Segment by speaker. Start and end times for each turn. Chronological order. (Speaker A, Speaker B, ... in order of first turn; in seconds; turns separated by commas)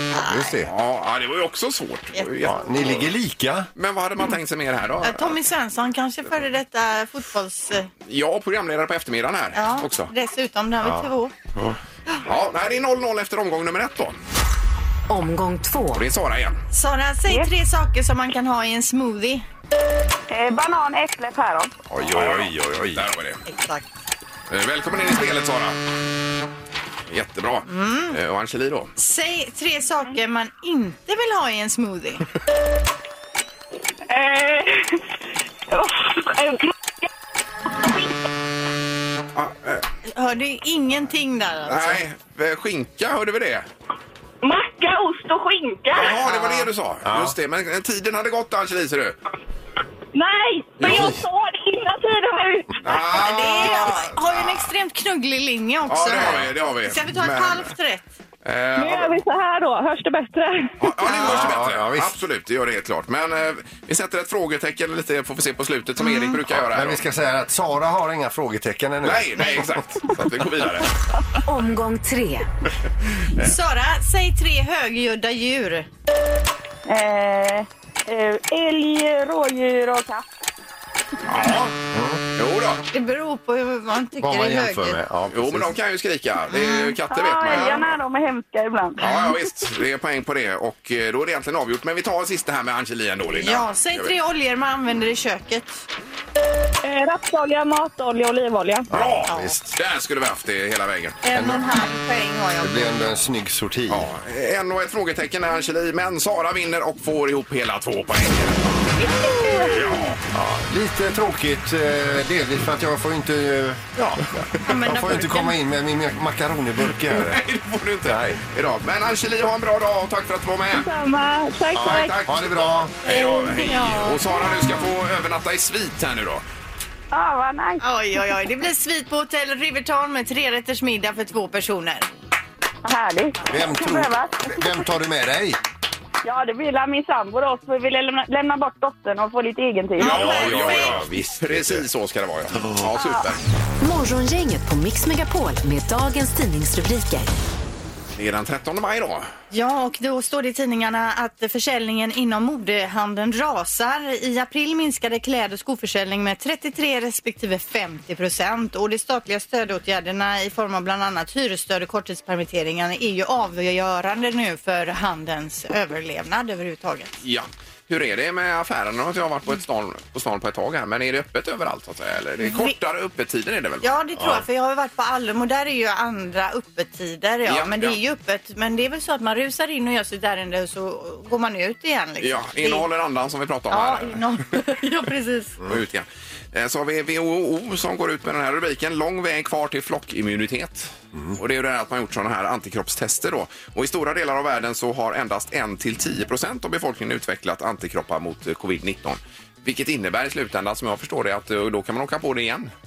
Speaker A: 0.1-0.5, Speaker B: 0.3-0.7, Speaker C: 0.7-3.1, Speaker A: 2.1-2.7, Speaker B: 2.5-3.7, Speaker C: 3.8-5.4, Speaker A: 5.0-7.9, Speaker C: 8.1-10.1, Speaker A: 9.6-11.3, Speaker B: 10.8-11.1, Speaker C: 11.6-14.2, Speaker D: 15.1-16.0, Speaker C: 15.9-16.6, Speaker A: 16.7-19.4, Speaker E: 20.3-21.7, Speaker B: 21.9-23.1, Speaker C: 22.0-23.4, Speaker A: 23.5-23.9, Speaker C: 24.5-25.8, Speaker C: 27.1-28.9, Speaker A: 27.7-28.2, Speaker A: 29.0-32.2, Speaker E: 34.1-35.0, Speaker E: 35.7-36.7, Speaker C: 39.3-39.8, Speaker A: 40.1-42.0, Speaker C: 41.7-43.7, Speaker E: 44.4-46.2, Speaker C: 45.9-49.2, Speaker A: 46.3-46.7, Speaker B: 47.0-47.4, Speaker E: 50.1-53.0, Speaker C: 50.8-51.1, Speaker B: 50.8-51.2, Speaker C: 52.8-54.7, Speaker A: 52.9-58.0, Speaker C: 55.9-57.7, Speaker C: 58.4-59.2, Speaker E: 58.8-60.7, Speaker C: 60.8-67.0, Speaker A: 61.0-61.5, Speaker B: 61.1-62.2, Speaker A: 66.0-66.4, Speaker B: 66.5-69.7, Speaker C: 69.0-71.0, Speaker D: 71.5-72.5, Speaker A: 73.4-75.9, Speaker E: 76.9-80.2, Speaker C: 81.3-81.7, Speaker B: 81.9-82.2, Speaker C: 82.4-82.8, Speaker A: 82.9-85.0, Speaker B: 84.2-85.8, Speaker C: 85.3-87.9, Speaker A: 86.5-87.0, Speaker E: 87.1-89.4, Speaker A: 87.5-87.8, Speaker C: 89.0-94.1, Speaker A: 93.3-95.8, Speaker E: 96.8-98.9, Speaker B: 98.9-99.7, Speaker C: 98.9-101.2, Speaker A: 99.3-99.5, Speaker A: 101.2-103.0, Speaker B: 101.3-101.6, Speaker B: 102.6-104.1, Speaker C: 103.9-108.9, Speaker E: 109.0-110.0, Speaker C: 109.7-110.2, Speaker B: 110.3-117.4, Speaker A: 114.6-115.5, Speaker C: 117.1-120.9, Speaker B: 118.0-118.4, Speaker E: 120.7-122.2, Speaker B: 121.7-123.0, Speaker C: 121.8-126.4, Speaker A: 123.0-124.7, Speaker E: 123.3-123.5, Speaker E: 127.1-127.8, Speaker A: 127.8-132.1, Speaker E: 132.8-134.7, Speaker B: 133.5-135.6, Speaker E: 136.2-140.5, Speaker C: 140.0-143.4, Speaker B: 140.0-141.9, Speaker A: 140.2-140.9, Speaker E: 142.9-143.3, Speaker D: 143.8-147.3, Speaker C: 148.2-149.3, Speaker A: 149.5-167.1, Speaker C: 167.2-173.9, Speaker A: 172.4-172.8, Speaker A: 173.8-182.9, Speaker B: 174.2-174.4, Speaker C: 177.4-178.0, Speaker C: 182.2-184.4, Speaker A: 183.7-185.6, Speaker C: 185.7-202.7